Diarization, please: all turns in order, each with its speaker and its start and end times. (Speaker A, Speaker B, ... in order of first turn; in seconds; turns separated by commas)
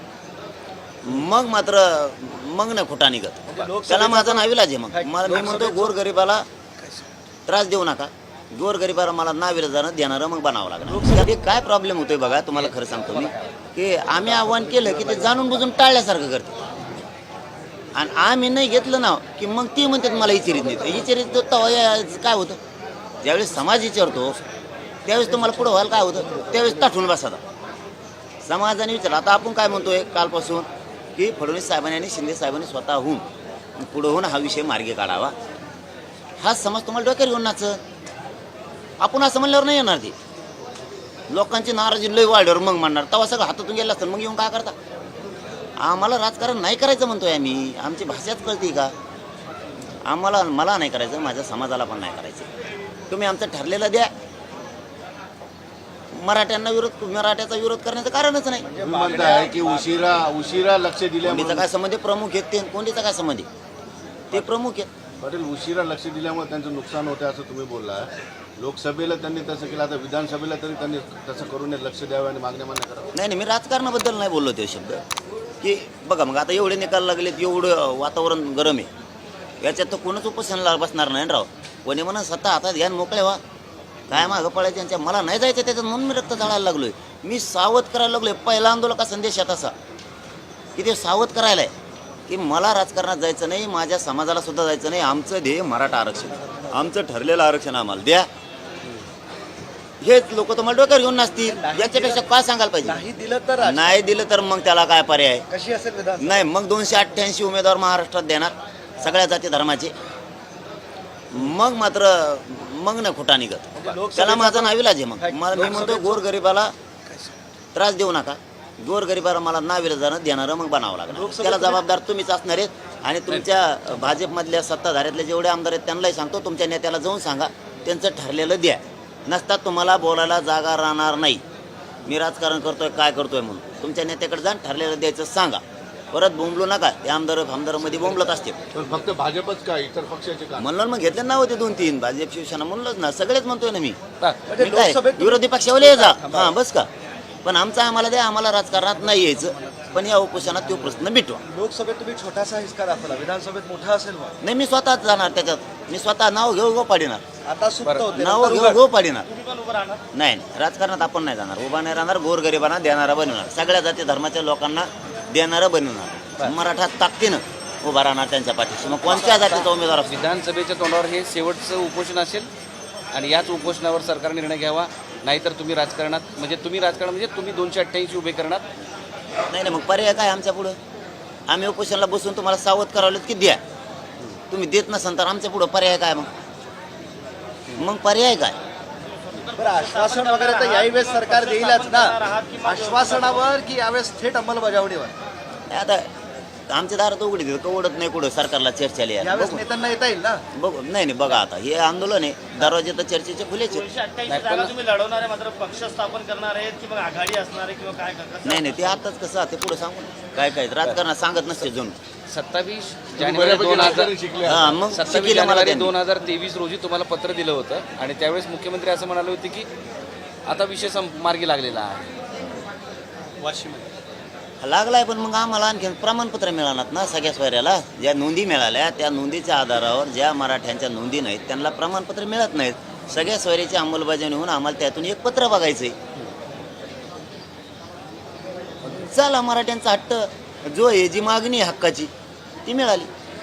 Speaker A: 1.0-6.5, Speaker B: 3.5-5.9, Speaker A: 7.5-16.6, Speaker B: 10.9-11.2, Speaker C: 12.6-13.4, Speaker A: 17.9-22.6, Speaker A: 23.2-24.4, Speaker A: 25.1-27.4, Speaker A: 28.4-33.2, Speaker A: 33.8-35.3, Speaker A: 36.4-37.8, Speaker A: 39.0-40.1, Speaker A: 41.3-44.8, Speaker A: 45.8-48.9, Speaker A: 50.1-52.5, Speaker A: 53.1-54.1, Speaker A: 56.1-58.7, Speaker B: 58.7-59.8, Speaker D: 58.8-61.7, Speaker A: 61.2-63.5, Speaker A: 64.3-64.9, Speaker D: 65.2-73.1, Speaker A: 73.1-75.0, Speaker A: 75.6-78.9, Speaker A: 79.6-83.4, Speaker A: 84.1-89.7, Speaker A: 90.8-91.7, Speaker A: 92.3-98.3, Speaker A: 100.0-103.0, Speaker B: 101.5-102.3, Speaker B: 102.8-104.0, Speaker A: 103.6-105.5, Speaker B: 105.5-106.4, Speaker A: 106.2-109.9, Speaker A: 111.3-116.7, Speaker B: 113.8-116.2, Speaker A: 117.7-131.4, Speaker B: 121.1-121.8, Speaker A: 132.1-138.6, Speaker D: 138.7-140.7, Speaker A: 140.6-144.0, Speaker B: 144.5-146.6, Speaker A: 144.6-146.9, Speaker A: 147.4-151.4, Speaker B: 151.5-154.3, Speaker A: 154.4-157.2, Speaker B: 157.4-158.8, Speaker A: 158.1-159.3, Speaker E: 159.2-160.0, Speaker A: 160.1-170.2, Speaker C: 169.1-172.5, Speaker C: 173.1-178.6, Speaker A: 179.5-180.8, Speaker A: 181.5-183.6, Speaker A: 184.5-186.3, Speaker A: 187.8-188.6, Speaker E: 189.3-193.5, Speaker B: 189.6-195.1, Speaker A: 195.7-196.1, Speaker A: 196.7-199.6, Speaker B: 199.2-200.4, Speaker A: 200.5-203.8, Speaker E: 203.7-208.8, Speaker C: 204.3-204.7, Speaker A: 208.4-212.0, Speaker C: 212.3-214.1, Speaker D: 213.2-214.8, Speaker A: 214.5-215.9, Speaker C: 214.9-219.7, Speaker C: 220.5-222.0, Speaker A: 224.6-236.0, Speaker A: 238.9-242.1, Speaker A: 242.7-243.1